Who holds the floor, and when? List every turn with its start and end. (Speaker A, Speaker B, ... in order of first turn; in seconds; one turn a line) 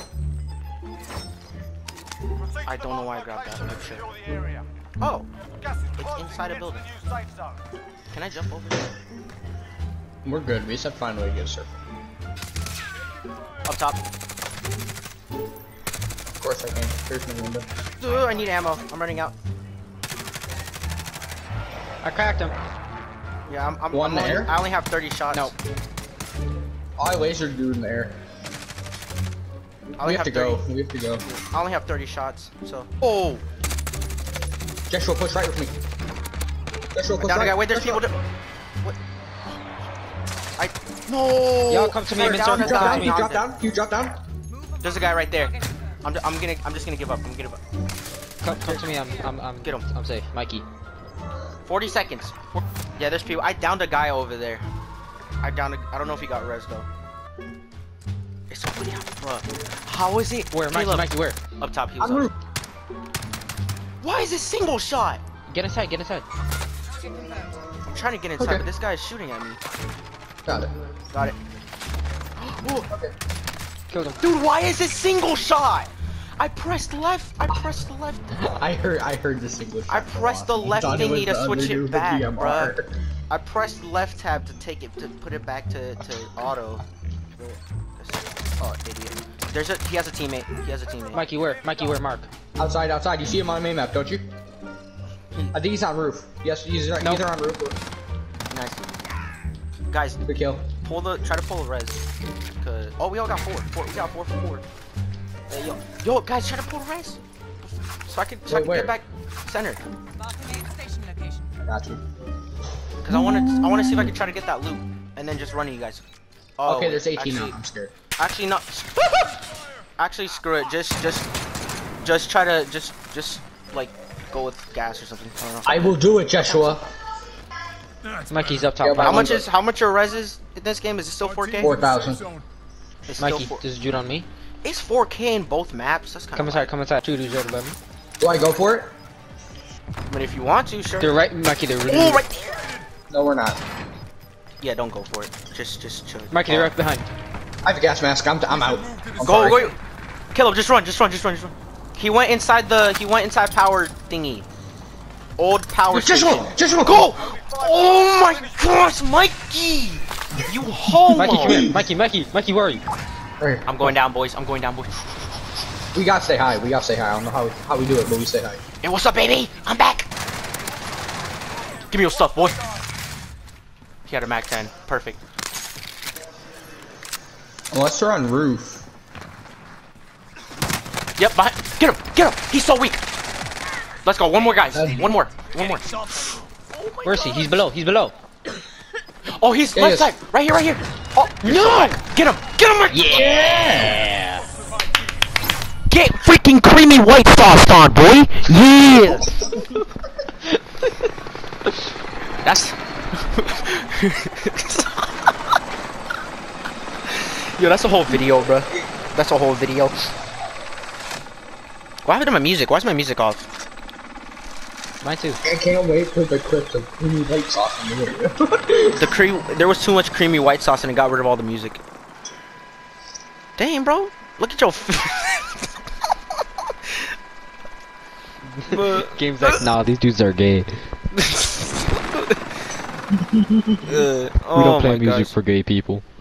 Speaker A: 2.6-4.0
Speaker A: 5.0-5.3
Speaker A: 6.0-6.9
Speaker A: 8.1-8.9
Speaker B: 10.2-11.8
Speaker A: 13.7-14.0
Speaker B: 16.4-17.7
Speaker A: 18.0-19.3
Speaker C: 22.0-22.6
Speaker A: 23.5-25.5
Speaker B: 23.9-24.6
Speaker B: 27.0-28.2
Speaker A: 30.0-30.6
Speaker B: 30.0-31.2
Speaker A: 31.2-33.4
Speaker B: 34.9-35.7
Speaker B: 36.9-38.0
Speaker A: 37.2-38.2
Speaker A: 40.6-43.5
Speaker C: 41.7-43.3
Speaker B: 42.1-44.2
Speaker A: 44.8-47.6
Speaker C: 48.4-50.6
Speaker A: 48.5-49.1
Speaker A: 51.6-54.6
Speaker A: 55.4-56.9
Speaker A: 58.5-62.3
Speaker C: 60.5-61.4
Speaker B: 62.0-62.3
Speaker A: 64.0-65.2
Speaker C: 65.5-66.2
Speaker A: 67.9-69.6
Speaker B: 68.4-68.7
Speaker B: 70.5-70.7
Speaker A: 72.4-72.9
Speaker C: 73.9-74.2
Speaker A: 74.2-78.2
Speaker B: 78.4-82.9
Speaker A: 79.9-82.8
Speaker A: 83.3-86.8
Speaker A: 87.4-91.2
Speaker C: 91.1-92.3
Speaker B: 92.6-94.2
Speaker B: 95.5-97.8
Speaker C: 97.0-97.3
Speaker A: 98.5-98.9
Speaker A: 99.9-100.2
Speaker B: 100.2-100.7
Speaker A: 100.8-102.0
Speaker A: 102.6-104.6
Speaker A: 105.5-109.8
Speaker B: 108.5-109.0
Speaker B: 111.7-112.0
Speaker A: 113.0-116.0
Speaker B: 113.1-114.1
Speaker A: 116.6-117.6
Speaker B: 116.7-117.9
Speaker A: 118.2-119.4
Speaker A: 120.0-121.3
Speaker A: 122.0-126.8
Speaker B: 125.6-126.8
Speaker C: 128.3-129.4
Speaker B: 128.8-129.4
Speaker A: 129.0-131.8
Speaker B: 131.6-132.3
Speaker A: 133.1-133.6
Speaker C: 133.2-134.3
Speaker A: 134.6-136.7
Speaker C: 136.3-137.8
Speaker B: 138.2-138.9
Speaker A: 140.1-141.2
Speaker C: 141.0-142.2
Speaker A: 141.8-142.8
Speaker B: 143.1-143.6
Speaker A: 144.6-146.7
Speaker C: 146.3-147.1
Speaker B: 147.6-149.7
Speaker A: 149.2-149.8
Speaker A: 150.3-154.5
Speaker A: 155.4-161.7
Speaker B: 155.9-157.1
Speaker C: 161.1-162.8
Speaker B: 161.2-161.9
Speaker B: 163.4-163.9
Speaker A: 163.7-164.9
Speaker B: 165.9-168.6
Speaker A: 168.8-170.1
Speaker A: 171.9-172.6
Speaker A: 174.1-175.2
Speaker B: 177.7-178.8
Speaker A: 181.2-183.0
Speaker A: 184.0-187.6
Speaker B: 184.7-185.1
Speaker C: 187.0-188.1
Speaker A: 189.3-193.3
Speaker B: 189.7-190.1
Speaker C: 191.4-192.0
Speaker C: 192.9-194.4
Speaker B: 193.1-194.0
Speaker A: 195.9-199.3
Speaker A: 202.4-205.1
Speaker A: 207.1-209.9
Speaker A: 212.1-213.5
Speaker C: 215.0-215.4
Speaker B: 215.4-219.1
Speaker A: 218.9-221.8
Speaker A: 223.6-225.7
Speaker C: 228.7-230.9
Speaker A: 228.7-229.6
Speaker A: 231.2-232.2
Speaker B: 233.3-233.8
Speaker A: 233.8-235.3
Speaker C: 234.4-236.0